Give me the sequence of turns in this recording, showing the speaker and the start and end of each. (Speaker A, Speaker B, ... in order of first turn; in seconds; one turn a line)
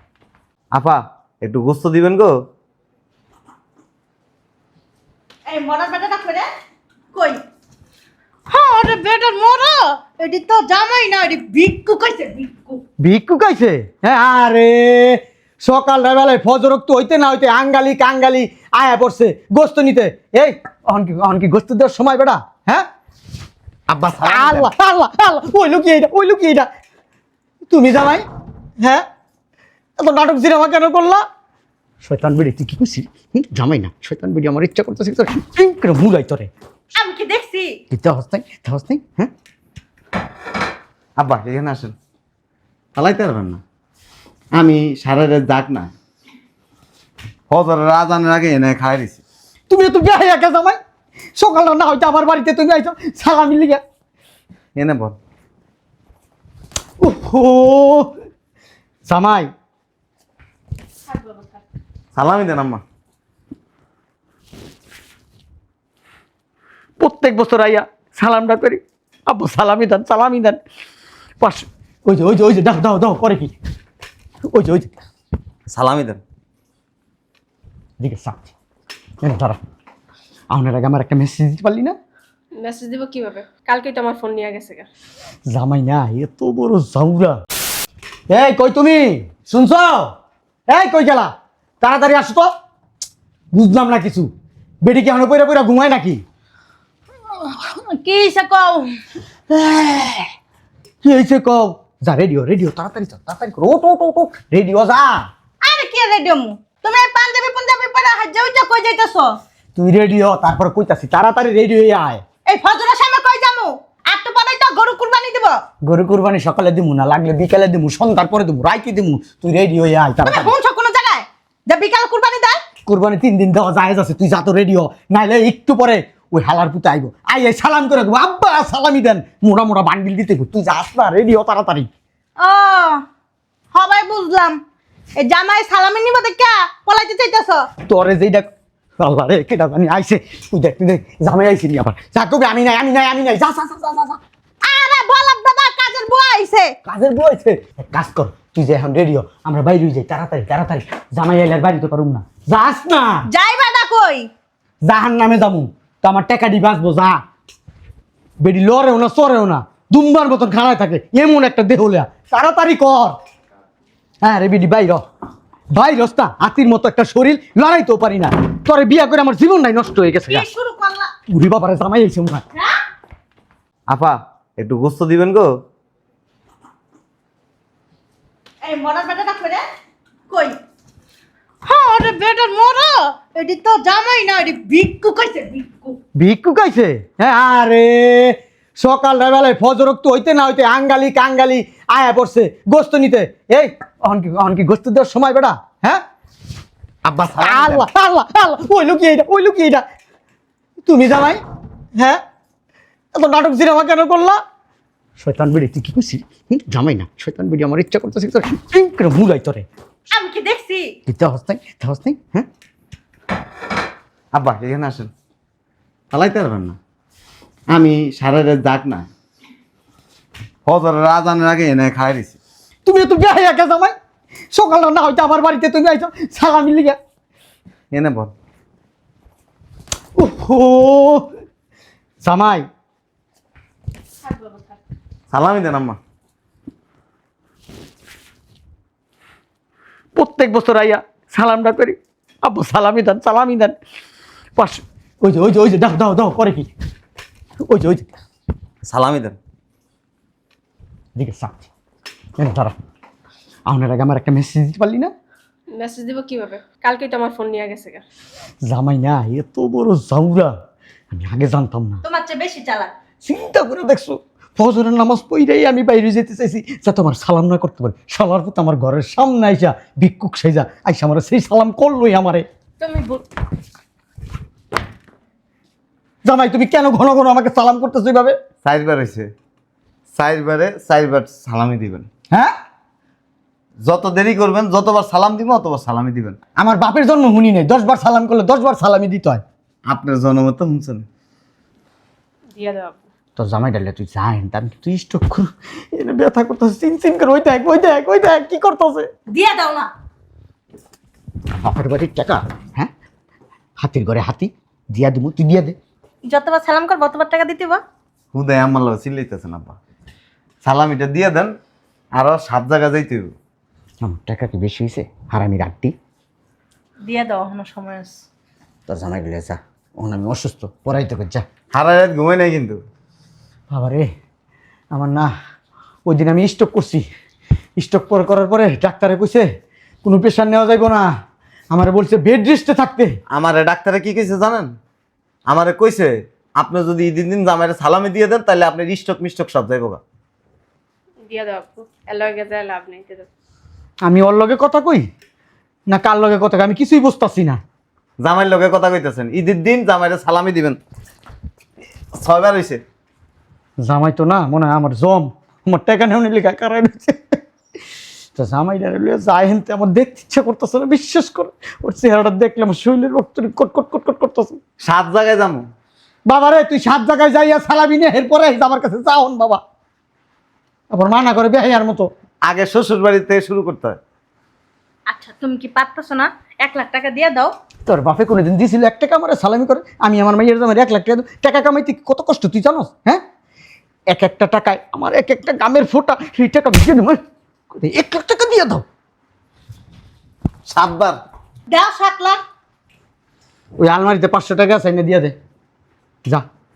Speaker A: 0.7-2.3
Speaker B: 5.5-6.5
Speaker B: 7.1-7.4
Speaker B: 8.5-12.8
Speaker C: 13.0-22.9
Speaker A: 23.9-24.7
Speaker C: 24.2-26.7
Speaker C: 27.7-28.2
Speaker C: 28.8-29.0
Speaker C: 30.0-31.2
Speaker C: 32.0-36.5
Speaker B: 37.0-37.8
Speaker C: 37.9-39.3
Speaker A: 41.2-42.0
Speaker A: 43.0-43.6
Speaker A: 44.5-45.9
Speaker A: 47.5-49.2
Speaker C: 49.7-50.8
Speaker C: 51.4-53.8
Speaker A: 54.8-55.2
Speaker C: 57.0-58.1
Speaker C: 59.1-59.5
Speaker D: 61.1-61.6
Speaker A: 62.1-62.8
Speaker C: 67.0-70.6
Speaker C: 71.4-73.5
Speaker C: 74.5-75.0
Speaker A: 75.7-76.2
Speaker C: 78.0-78.5
Speaker C: 79.2-79.6
Speaker C: 80.5-82.0
Speaker D: 82.6-84.9
Speaker C: 85.5-87.4
Speaker C: 88.3-90.1
Speaker C: 90.7-92.5
Speaker C: 93.5-94.3
Speaker C: 94.8-96.2
Speaker B: 97.4-99.0
Speaker C: 99.5-100.3
Speaker C: 101.0-105.3
Speaker B: 105.6-109.4
Speaker C: 109.8-112.2
Speaker B: 112.5-115.6
Speaker C: 115.8-120.5
Speaker B: 120.2-122.6
Speaker C: 122.9-131.9
Speaker B: 132.4-133.0
Speaker B: 133.7-134.6
Speaker B: 135.2-137.7
Speaker C: 137.8-138.5
Speaker C: 139.0-144.2
Speaker B: 144.6-146.8
Speaker C: 146.9-153.3
Speaker B: 153.3-154.3
Speaker C: 154.8-157.2
Speaker C: 158.4-163.2
Speaker C: 164.2-165.0
Speaker C: 165.7-170.5
Speaker B: 170.3-171.1
Speaker C: 171.3-172.4
Speaker A: 173.9-175.5
Speaker B: 178.6-179.6
Speaker B: 180.3-180.6
Speaker B: 181.7-186.0
Speaker C: 186.2-196.0
Speaker A: 197.1-197.9
Speaker C: 197.2-199.8
Speaker C: 200.8-201.4
Speaker C: 202.0-202.2
Speaker C: 203.1-204.4
Speaker C: 205.2-209.7
Speaker B: 210.1-210.9
Speaker C: 211.1-212.5
Speaker A: 214.3-215.1
Speaker A: 216.1-216.8
Speaker A: 217.7-219.1
Speaker A: 220.7-222.4
Speaker C: 222.8-223.9
Speaker C: 224.5-227.0
Speaker A: 227.9-228.3
Speaker C: 230.2-231.3
Speaker C: 232.2-232.7
Speaker D: 234.2-234.8
Speaker A: 235.3-236.0
Speaker C: 240.2-243.8
Speaker C: 244.6-246.7
Speaker C: 247.6-248.2
Speaker A: 248.9-249.4
Speaker C: 251.2-251.7
Speaker C: 252.4-252.8
Speaker C: 253.7-255.1
Speaker D: 255.7-258.0
Speaker C: 258.6-260.5
Speaker C: 261.1-262.0
Speaker B: 262.0-262.9
Speaker C: 263.2-272.4
Speaker D: 272.8-273.2
Speaker C: 276.2-278.4
Speaker A: 278.6-279.3
Speaker A: 280.1-282.1
Speaker A: 283.9-286.4
Speaker C: 286.6-289.4
Speaker A: 289.9-291.1
Speaker D: 292.5-293.0
Speaker C: 293.4-299.1
Speaker B: 299.3-299.9
Speaker C: 301.6-302.9
Speaker C: 303.8-305.8
Speaker B: 306.3-307.8
Speaker A: 308.3-309.8
Speaker A: 310.6-311.5
Speaker A: 312.2-313.3
Speaker C: 314.0-315.9
Speaker B: 317.1-318.2
Speaker C: 318.9-321.5
Speaker A: 321.7-322.8
Speaker C: 323.7-324.1
Speaker C: 324.9-325.3
Speaker C: 326.1-327.1
Speaker C: 327.8-329.5
Speaker C: 330.0-331.1
Speaker C: 331.7-333.2
Speaker A: 333.3-334.7
Speaker A: 335.5-340.0
Speaker D: 341.2-343.3
Speaker C: 344.0-345.1
Speaker C: 345.9-347.6
Speaker A: 348.2-350.8
Speaker A: 352.1-352.8
Speaker C: 353.8-357.4
Speaker C: 358.4-364.6
Speaker A: 364.8-365.7
Speaker C: 366.3-369.6
Speaker C: 370.9-372.1
Speaker A: 372.5-374.0
Speaker B: 375.1-377.5
Speaker C: 377.9-383.2
Speaker C: 384.1-387.2
Speaker C: 387.7-388.9
Speaker A: 390.7-391.2
Speaker B: 391.7-392.4
Speaker C: 393.8-395.4